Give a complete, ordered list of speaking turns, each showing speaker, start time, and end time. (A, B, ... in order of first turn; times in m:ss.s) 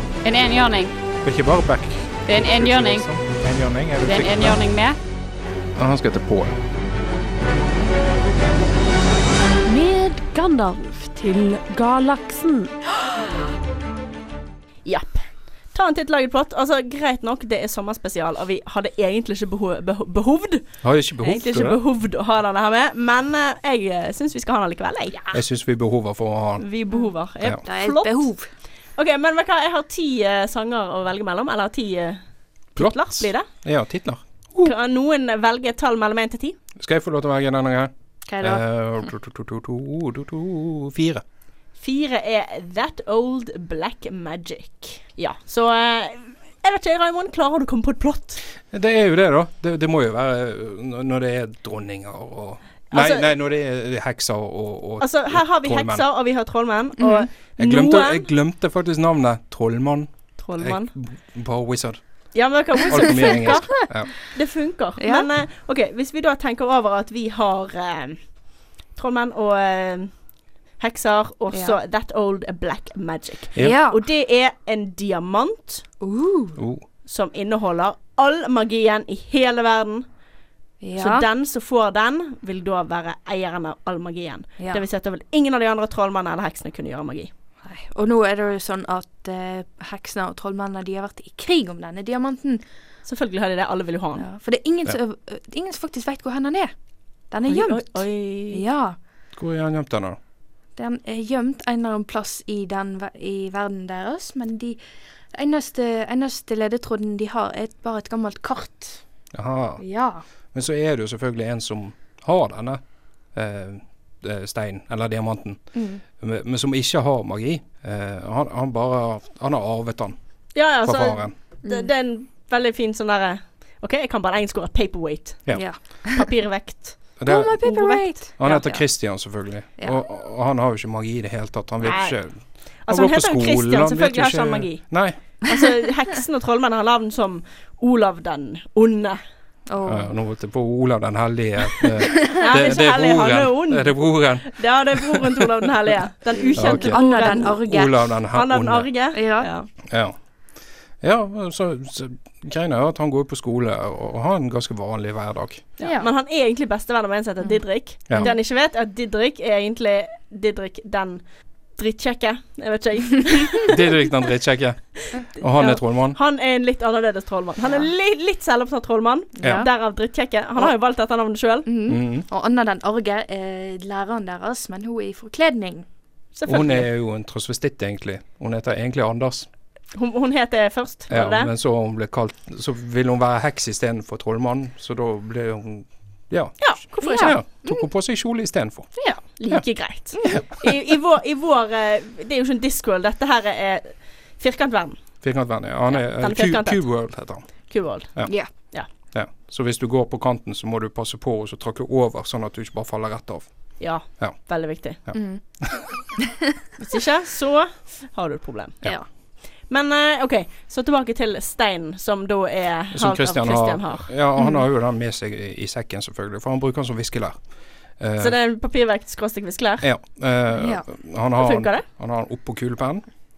0:00.2-0:00.9 A
0:01.2-0:04.6 B
0:02.3-0:03.1 A
0:04.0-0:05.0 A
0:05.8-0:06.6 B
0:09.7-0:12.7 C
0:14.8-0:25.2 D
0:20.8-0:21.8 B
0:25.3-0:26.7 B
0:26.6-0:28.3 D
0:27.6-0:28.5 E
0:29.0-0:32.2 D
0:32.7-0:33.5 D
0:32.8-0:34.7 B
0:34.6-0:36.6 D
0:36.8-0:41.2 B
0:38.3-0:38.6 E
0:41.8-0:48.4 D
0:48.7-0:56.1 B
0:52.9-0:53.3 D
0:55.0-0:58.3 D
0:57.0-0:57.3 E
0:57.6-1:02.0 B
1:00.4-1:00.9 D
1:02.3-1:08.2 D
1:02.8-1:04.2 B
1:05.0-1:05.3 E
1:08.9-1:10.2 D
1:10.8-1:15.8 D
1:13.6-1:14.0 E
1:16.0-1:16.6 E
1:16.6-1:16.8 B
1:17.1-1:20.1 D
1:20.8-1:21.2 E
1:21.0-1:27.3 D
1:27.6-1:32.6 E
1:33.1-1:34.2 D
1:34.2-1:36.7 E
1:37.3-1:39.0 E
1:37.5-1:38.6 D
1:39.3-1:40.2 B
1:40.8-1:44.8 E
1:45.3-1:49.0 E
1:49.3-1:49.8 B
1:49.8-1:50.2 E
1:50.5-1:52.8 B
1:53.3-2:00.2 B
1:55.7-1:56.0 E
2:00.6-2:07.1 D
2:00.8-2:01.4 B
2:05.5-2:06.3 E
2:07.2-2:15.2 B
2:07.3-2:09.1 E
2:07.7-2:08.6 D
2:11.8-2:12.2 D
2:12.8-2:19.2 D
2:19.7-2:20.1 E
2:19.8-2:25.4 B
2:22.4-2:27.7 D
2:26.4-2:28.0 E
2:26.6-2:28.9 B
2:28.3-2:29.7 D
2:29.1-2:29.5 E
2:29.8-2:30.2 B
2:31.0-2:35.7 B
2:35.8-2:41.2 D
2:35.8-2:36.1 E
2:37.5-2:38.4 E
2:41.7-2:44.0 D
2:43.7-2:46.2 B
2:45.1-2:51.7 D
2:49.4-2:49.8 E
2:49.4-2:49.7 B
2:51.6-2:55.9 E
2:51.9-2:52.3 B
2:56.4-2:56.9 D
2:56.5-2:59.5 B
2:59.9-3:01.5 D
3:01.1-3:09.7 B
3:06.6-3:07.4 D
3:07.0-3:07.8 E
3:09.1-3:15.0 D
3:10.1-3:10.4 E
3:15.2-3:18.3 B
3:15.9-3:16.9 D
3:17.7-3:18.9 D
3:19.1-3:24.4 B
3:23.8-3:25.0 D
3:25.1-3:25.9 B
3:25.1-3:25.4 E
3:26.2-3:26.5 E
3:26.8-3:28.8 D
3:29.6-3:34.1 D
3:32.9-3:37.4 B
3:34.4-3:34.6 E
3:38.0-3:38.4 B
3:38.2-3:39.9 D
3:39.8-3:43.1 B
3:40.6-3:40.8 E
3:41.4-3:41.9 D